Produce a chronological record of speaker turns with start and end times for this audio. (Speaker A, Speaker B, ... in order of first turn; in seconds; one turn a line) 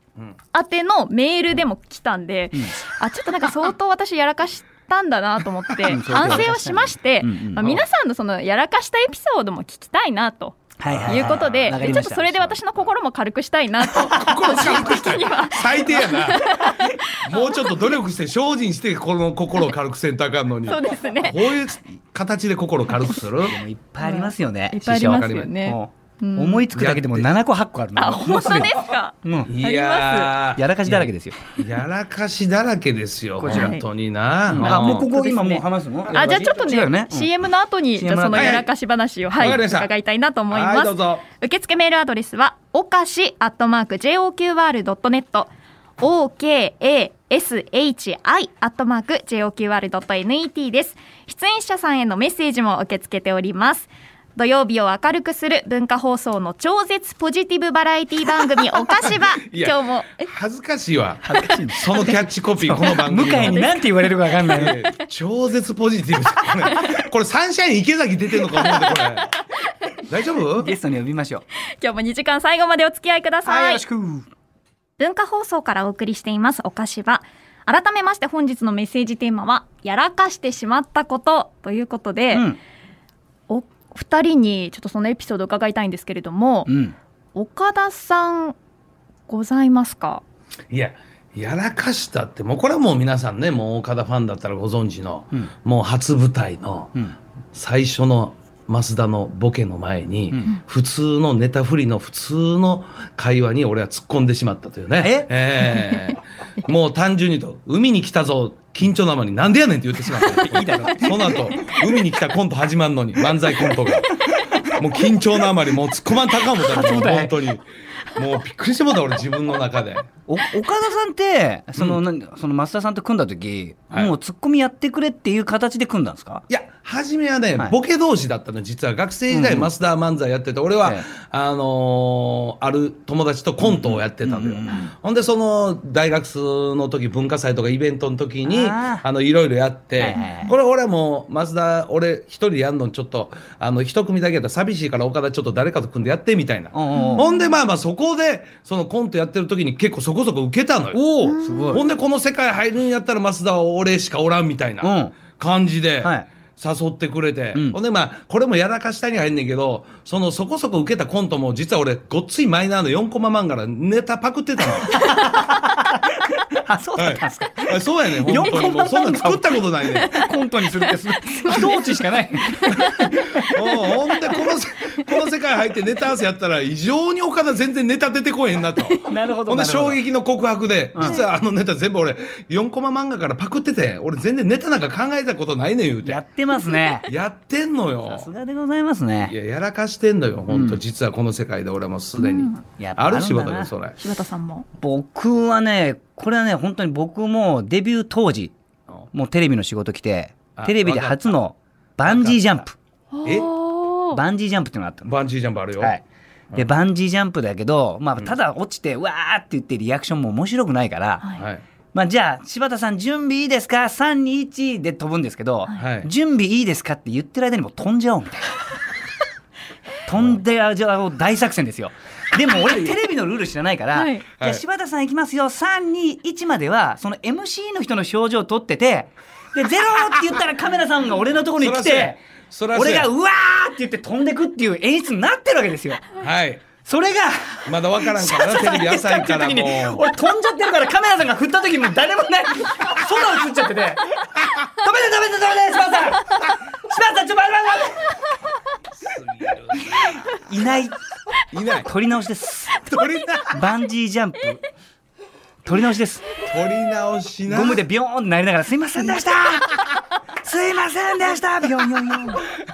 Speaker A: 0.5-17.8
Speaker B: 5.8-7.8
Speaker B: 10.8-12.6
Speaker C: 10.9-11.9
Speaker B: 14.0-14.5
Speaker C: 14.1-16.5
Speaker C: 17.2-23.6
Speaker A: 20.6-21.5
Speaker B: 23.4-29.5
Speaker A: 24.0-26.7
Speaker C: 25.0-25.5
Speaker C: 26.7-27.3
Speaker A: 27.9-30.3
Speaker C: 29.5-35.1
Speaker B: 30.6-31.4
Speaker B: 33.4-33.8
Speaker A: 33.4-33.8
Speaker B: 34.5-37.3
Speaker A: 34.6-60.3
Speaker B: 37.9-38.7
Speaker C: 38.3-38.6
Speaker C: 39.4-39.9
Speaker C: 40.5-41.2
Speaker C: 59.0-63.7
Speaker B: 61.2-64.8
Speaker A: 63.2-63.9
Speaker A: 64.5-64.9
Speaker C: 64.5-69.3
Speaker A: 66.7-67.0
Speaker A: 68.5-70.0
Speaker C: 70.0-70.7
Speaker B: 70.5-71.4
Speaker A: 71.6-73.8
Speaker B: 73.4-74.3
Speaker A: 75.0-82.5
Speaker B: 82.3-82.6
Speaker A: 83.5-86.7
Speaker B: 86.7-87.0
Speaker A: 87.3-88.5
Speaker A: 89.3-90.2
Speaker C: 90.7-97.0
Speaker C: 97.5-114.1
Speaker B: 100.3-100.6
Speaker B: 105.0-105.7
Speaker B: 110.1-111.4
Speaker B: 114.3-114.6
Speaker C: 114.7-120.1
Speaker B: 116.6-117.3
Speaker B: 120.3-126.4
Speaker C: 126.5-151.0
Speaker B: 129.3-129.7
Speaker B: 133.6-134.9
Speaker B: 138.4-139.0
Speaker B: 140.0-140.5
Speaker B: 146.7-147.3
Speaker A: 146.9-147.6
Speaker B: 150.9-151.8
Speaker A: 151.2-151.8
Speaker C: 151.7-164.9
Speaker B: 154.8-155.1
Speaker B: 156.0-156.3
Speaker B: 164.8-173.6
Speaker C: 167.0-170.2
Speaker A: 171.4-171.9
Speaker A: 172.6-172.9
Speaker C: 173.4-186.2
Speaker B: 179.1-180.0
Speaker B: 180.9-181.2
Speaker B: 186.0-187.1
Speaker C: 187.1-188.3
Speaker B: 188.0-189.3
Speaker C: 189.2-194.0
Speaker B: 190.5-190.8
Speaker A: 192.2-192.6
Speaker B: 192.8-193.7
Speaker A: 194.0-194.7
Speaker B: 194.8-198.5
Speaker B: 199.1-202.7
Speaker C: 200.5-201.4
Speaker C: 202.0-202.5
Speaker A: 203.1-204.2
Speaker C: 203.2-203.5
Speaker B: 204.1-205.1
Speaker C: 205.0-205.9
Speaker B: 206.5-211.3
Speaker C: 211.3-211.6
Speaker B: 211.9-218.6
Speaker C: 215.8-216.1
Speaker B: 220.1-232.2
Speaker A: 223.9-224.2
Speaker C: 231.6-233.1
Speaker B: 232.7-236.0
Speaker C: 236.2-236.6
Speaker B: 236.8-248.1
Speaker C: 237.7-240.0
Speaker C: 249.0-250.2
Speaker B: 249.8-250.9
Speaker C: 251.5-251.9
Speaker B: 251.8-252.8
Speaker C: 252.8-253.6
Speaker B: 253.5-254.6
Speaker B: 255.6-256.2
Speaker C: 256.5-257.8
Speaker B: 257.5-259.8
Speaker B: 260.4-262.4